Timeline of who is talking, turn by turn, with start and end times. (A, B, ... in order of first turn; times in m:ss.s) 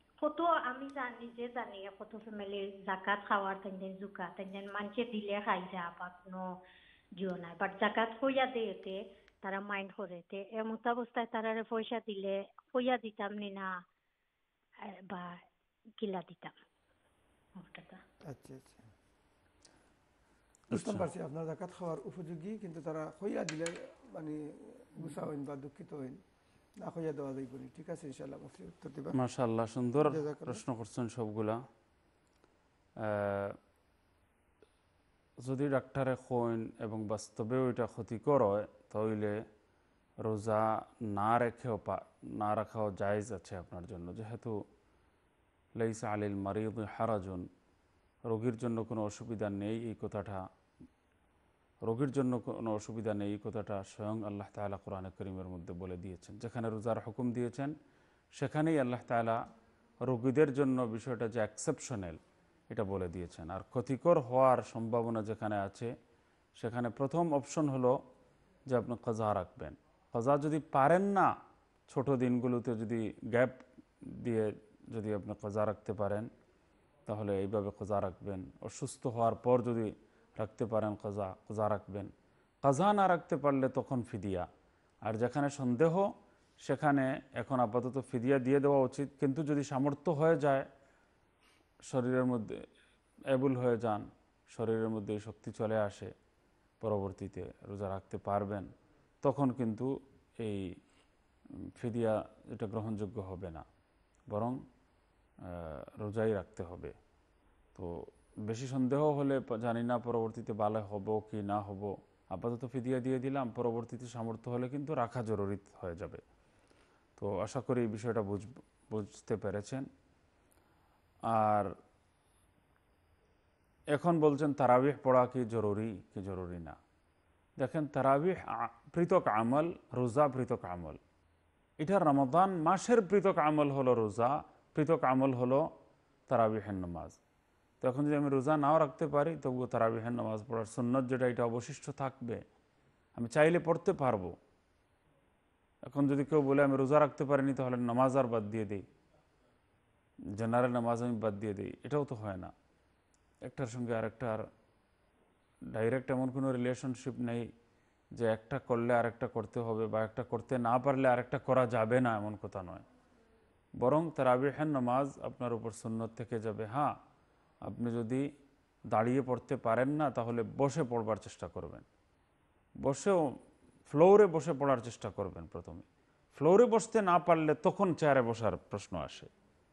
0:00.2-0:06.6 A
0:07.2-0:13.8 A
0:14.8-0:15.4 A
0:16.0-0:16.6 A
0:17.6-0:18.0 A
0:18.2-0:18.9 B
0:20.7-0:21.1 C
0:20.7-0:26.2 B
0:26.8-0:29.2 B
0:29.1-0:31.6 C
0:30.0-0:30.6 B
0:33.0-0:33.6 C
0:35.4-0:39.4 C
0:40.2-0:44.6 C
0:45.8-0:47.5 C
0:48.3-0:50.5 C
0:51.8-0:57.8 C
0:58.4-0:59.4 C
1:00.0-1:05.9 C
1:06.6-1:08.0 C
1:08.7-1:11.3 C
1:11.9-1:16.3 C
1:17.1-1:22.1 C
1:22.6-1:24.5 C
1:25.1-1:26.1 C
1:26.6-1:30.7 C
1:31.9-1:32.6 C
1:33.3-1:36.1 C
1:36.8-1:38.7 C
1:39.2-1:40.6 C
1:41.8-1:43.6 C
1:44.3-1:44.6 C
1:45.5-1:47.0 C
1:47.8-1:56.2 C
1:57.2-1:59.9 C
2:01.3-2:01.7 C
2:03.9-2:06.8 C
2:07.6-2:11.0 C
2:11.8-2:15.7 C
2:16.3-2:17.2 C
2:17.8-2:22.4 C
2:23.2-2:24.4 C
2:25.9-2:28.8 C
2:30.3-2:32.5 C
2:33.4-2:34.5 C
2:35.7-2:37.5 C
2:38.2-2:42.8 C
2:43.8-2:47.0 C
2:47.6-2:48.3 C
2:48.9-2:51.8 C
2:52.8-2:59.3 C